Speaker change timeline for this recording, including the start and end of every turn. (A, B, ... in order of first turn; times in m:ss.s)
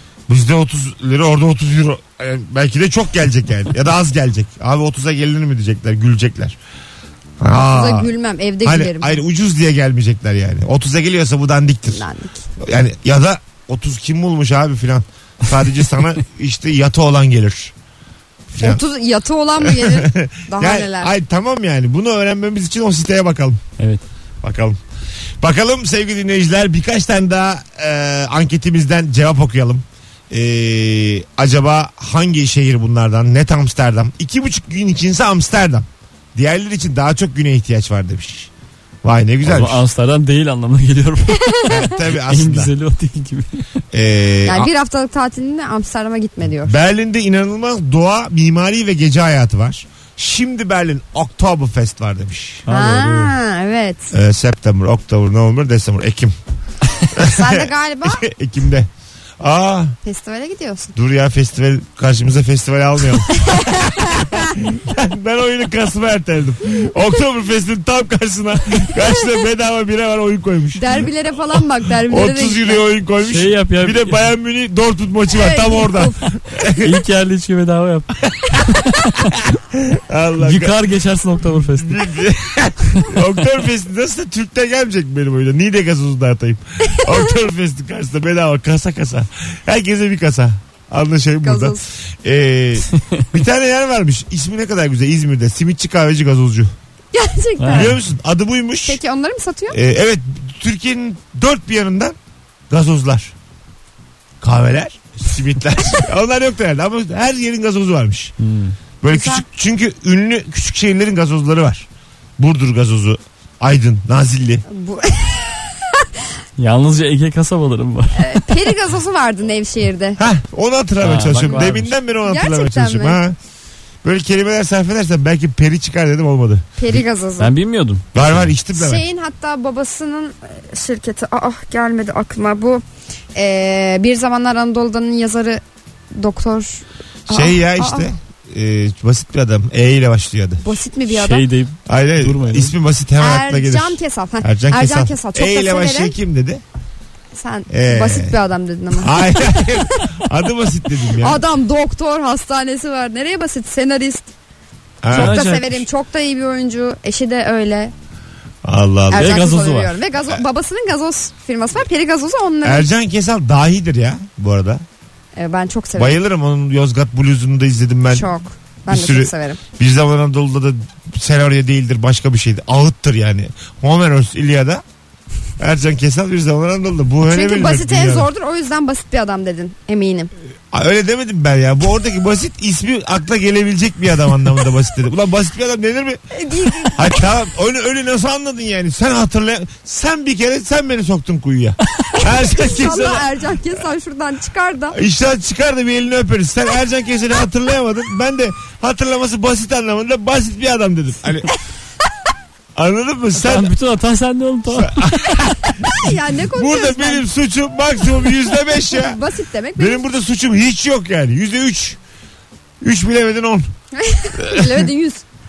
0:00.3-0:06.6 A
0:07.4-0:08.1 A
0:07.5-0:09.2 B
0:08.6-0:12.0 A
0:11.9-0:12.4 B
0:12.6-0:17.7 A
0:18.5-0:18.8 A
0:18.6-0:21.1 B
0:19.6-0:23.6 A
0:23.8-0:24.0 C
0:24.4-0:24.8 A
0:25.4-0:38.5 A
0:39.0-0:39.8 A
0:39.4-0:43.6 C
0:41.4-0:41.7 B
0:41.7-0:42.7 A
0:43.9-0:44.7 A
0:44.4-0:46.8 B
0:46.6-0:52.6 A
0:52.6-0:53.3 C
0:52.7-0:54.1 B
0:54.1-0:56.3 A
0:57.1-0:58.9 A
0:57.2-0:58.2 B
0:59.4-1:00.0 A
1:00.0-1:00.9 B
1:00.9-1:11.1 A
1:03.3-1:04.4 B
1:10.8-1:12.8 B
1:12.1-1:16.9 A
1:13.2-1:14.2 C
1:15.3-1:16.2 B
1:16.8-1:19.4 C
1:19.7-1:20.7 A
1:20.4-1:22.0 C
1:21.8-1:36.7 A
1:31.4-1:31.8 B
1:37.1-1:37.9 B
1:37.6-1:37.9 C
1:37.7-1:39.0 A
1:38.8-1:39.8 B
1:39.7-1:42.2 A
1:42.7-1:43.3 A
1:44.4-1:48.3 A
1:48.4-1:48.8 C
1:49.0-1:51.9 A
1:49.1-1:49.4 B
1:52.4-1:54.6 A
1:54.7-1:56.0 B
1:56.6-1:58.5 C
1:58.1-2:00.2 B
2:00.2-2:03.4 A
2:01.0-2:01.9 C
2:02.2-2:03.2 B
2:04.0-2:06.8 A
2:06.8-2:07.5 B
2:07.4-2:08.5 C
2:08.1-2:09.0 A
2:08.7-2:12.8 B
2:13.3-2:15.6 B
2:16.1-2:18.1 B
2:17.3-2:20.6 A
2:20.6-2:21.4 B
2:21.1-2:22.7 C
2:21.9-2:26.6 A
2:23.2-2:26.1 B
2:27.3-2:30.0 B
2:27.7-2:28.4 A
2:28.9-2:31.4 A
2:31.2-2:34.3 B
2:35.0-2:35.4 A
2:35.1-2:35.8 C
2:35.1-2:37.9 B
2:38.6-2:39.4 A
2:39.1-2:42.9 B
2:39.1-2:40.0 C
2:42.6-2:44.8 A
2:45.4-2:46.2 B
2:46.0-2:48.3 A
2:48.1-2:49.6 B
2:48.9-2:54.8 A
2:55.6-2:58.3 A
2:57.3-3:00.3 B
3:00.7-3:06.2 A
3:06.3-3:07.2 B
3:06.8-3:13.3 A
3:12.2-3:15.0 B
3:14.9-3:21.5 A
3:22.7-3:23.7 A
3:23.4-3:25.3 C
3:24.7-3:29.2 A
3:25.8-3:27.2 B
3:28.8-3:30.0 B
3:29.8-3:32.0 A
3:32.8-3:33.7 A
3:33.9-3:35.2 B
3:34.3-3:34.9 A